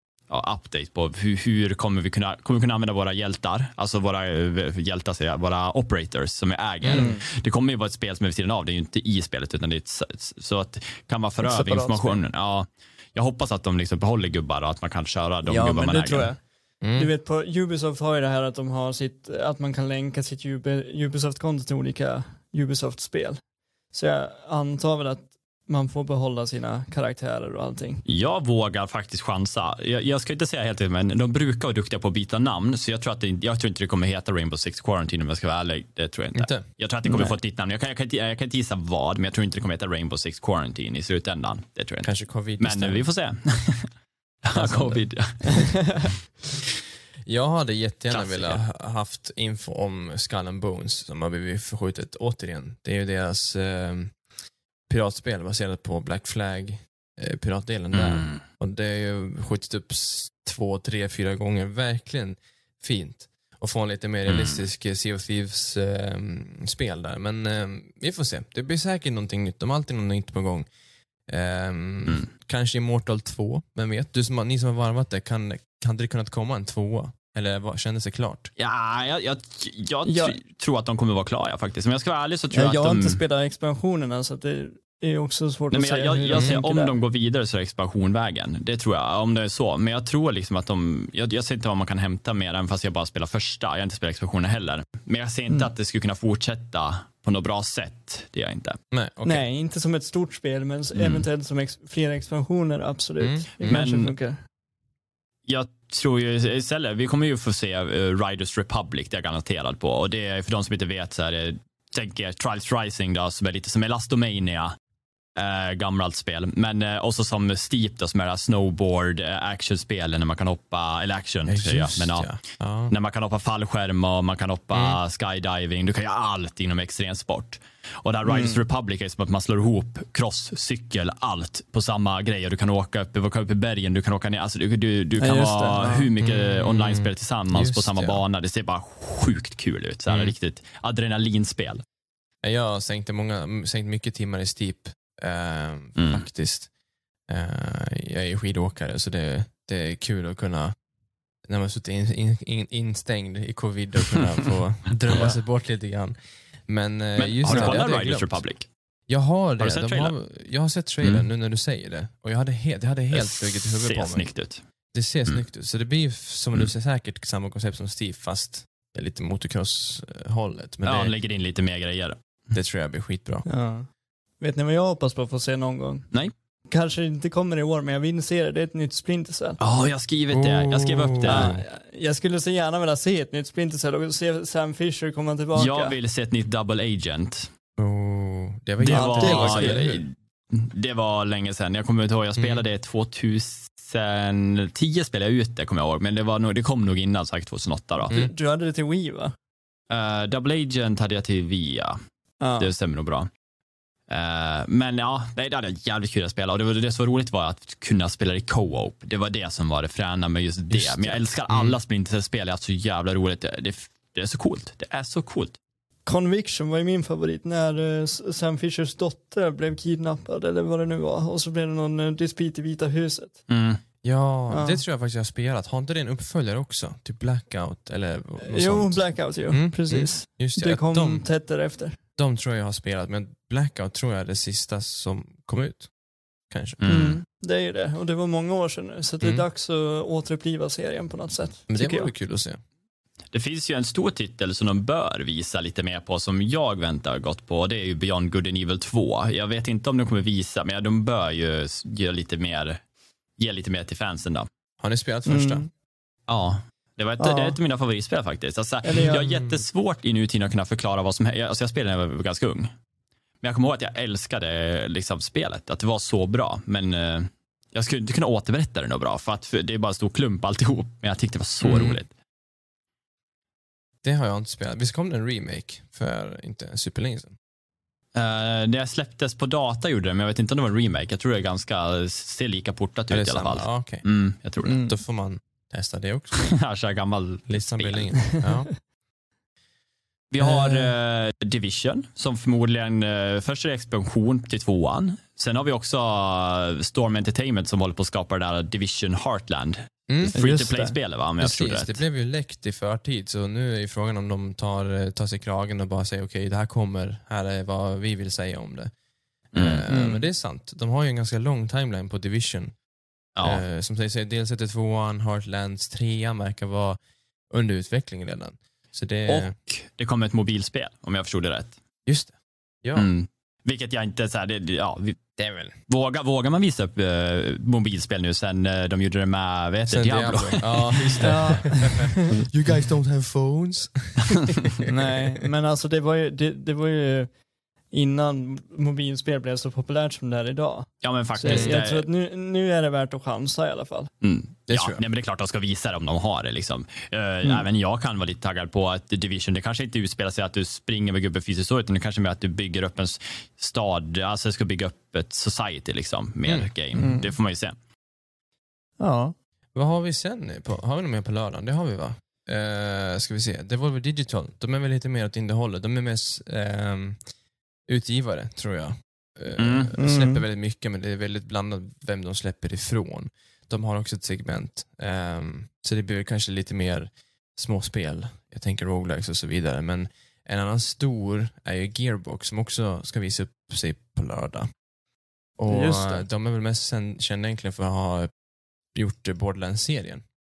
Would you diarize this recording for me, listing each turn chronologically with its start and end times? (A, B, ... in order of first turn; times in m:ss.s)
0:00.3-0:16.3 A
0:06.8-0:07.1 B
0:06.9-0:07.2 C
0:11.4-0:12.2 C
0:15.4-0:28.0 C
0:16.8-0:17.1 B
0:28.0-0:46.0 A
0:36.3-0:36.6 B
0:37.0-0:37.3 C
0:42.0-0:43.1 B
0:44.5-0:45.2 B
0:45.4-0:46.0 C
0:47.2-0:54.2 B
0:48.1-0:48.6 A
0:54.9-1:10.6 B
0:57.9-0:58.4 A
1:04.3-1:04.6 A
1:11.3-1:18.5 B
1:18.6-1:23.2 A
1:20.0-1:20.4 C
1:22.5-1:26.9 C
1:25.7-1:38.8 A
1:38.9-1:39.4 B
1:39.2-1:44.4 C
1:40.9-1:41.2 A
1:43.2-1:43.8 B
1:43.6-1:44.1 A
1:45.4-1:54.8 A
1:55.3-2:21.8 A
2:01.4-2:02.9 B
2:04.7-2:05.0 B
2:08.2-2:08.6 C
2:15.2-2:16.1 C
2:16.2-2:18.2 B
2:20.1-2:20.3 B
2:22.4-2:26.7 B
2:26.0-2:26.2 A
2:27.3-2:30.7 B
2:31.4-2:38.4 B
2:35.1-2:35.4 A
2:37.2-2:38.7 A
2:39.1-2:44.3 B
2:39.6-2:40.2 A
2:43.1-2:44.6 A
2:44.9-2:51.1 B
2:50.8-2:52.2 A
2:52.5-2:53.4 B
2:53.4-2:53.9 C
2:54.4-2:56.1 C
2:56.7-2:59.6 C
2:59.6-3:01.5 A
3:00.3-3:01.6 B
3:01.2-3:05.9 C
3:05.5-3:07.5 A
3:07.8-3:10.0 B
3:08.8-3:18.1 A
3:08.9-3:09.8 C
3:12.4-3:12.6 B
3:18.1-3:19.3 C
3:19.9-3:22.0 A
3:22.4-3:22.7 C
3:22.6-3:23.3 A
3:24.1-3:35.6 A
3:30.7-3:31.8 B
3:36.0-3:43.4 C
3:43.5-3:43.8 A
3:44.0-3:51.2 B
3:44.5-3:44.8 C
3:48.4-3:52.0 C
3:52.2-3:55.9 B
3:56.5-3:56.8 B
3:56.8-3:57.2 A
3:56.9-4:02.1 C
4:01.7-4:02.6 B
4:03.3-4:12.8 A
4:13.4-4:14.5 A
4:14.8-4:15.7 B
4:15.2-4:15.6 C
4:16.3-4:22.7 A
4:17.2-4:17.6 C
4:18.8-4:19.3 C
4:19.0-4:19.6 B
4:23.4-4:32.1 A
4:31.6-4:32.0 B
4:34.0-4:37.3 B
4:38.1-4:44.9 A
4:43.1-4:44.0 B
4:44.6-4:44.9 C
4:44.7-4:46.5 B
4:46.5-4:48.2 A
4:47.5-4:48.7 B
4:50.3-5:02.0 A
4:50.4-4:50.9 B
5:00.1-5:00.3 B
5:00.3-5:00.9 C
5:01.4-5:08.9 B
5:09.5-5:12.8 B
5:09.5-5:09.8 A
5:09.9-5:10.2 C
5:13.3-5:13.6 A
5:13.4-5:17.0 B
5:17.5-5:19.6 B
5:19.3-5:21.7 A
5:22.0-5:23.1 B
5:22.9-5:31.7 A
5:25.4-5:25.7 B
5:29.9-5:35.4 B
5:31.2-5:32.3 C
5:34.9-5:44.1 C
5:41.0-5:42.1 A
5:41.5-5:41.8 B
5:44.2-5:57.8 A
5:44.7-5:45.0 B
5:56.4-5:56.7 B
5:56.9-5:57.3 C
5:59.0-5:59.3 C
5:59.7-6:07.2 B
6:07.9-6:24.7 B
6:09.6-6:09.9 A
6:10.0-6:10.4 C
6:25.6-6:28.3 B
6:25.7-6:26.2 C
6:28.9-6:30.2 B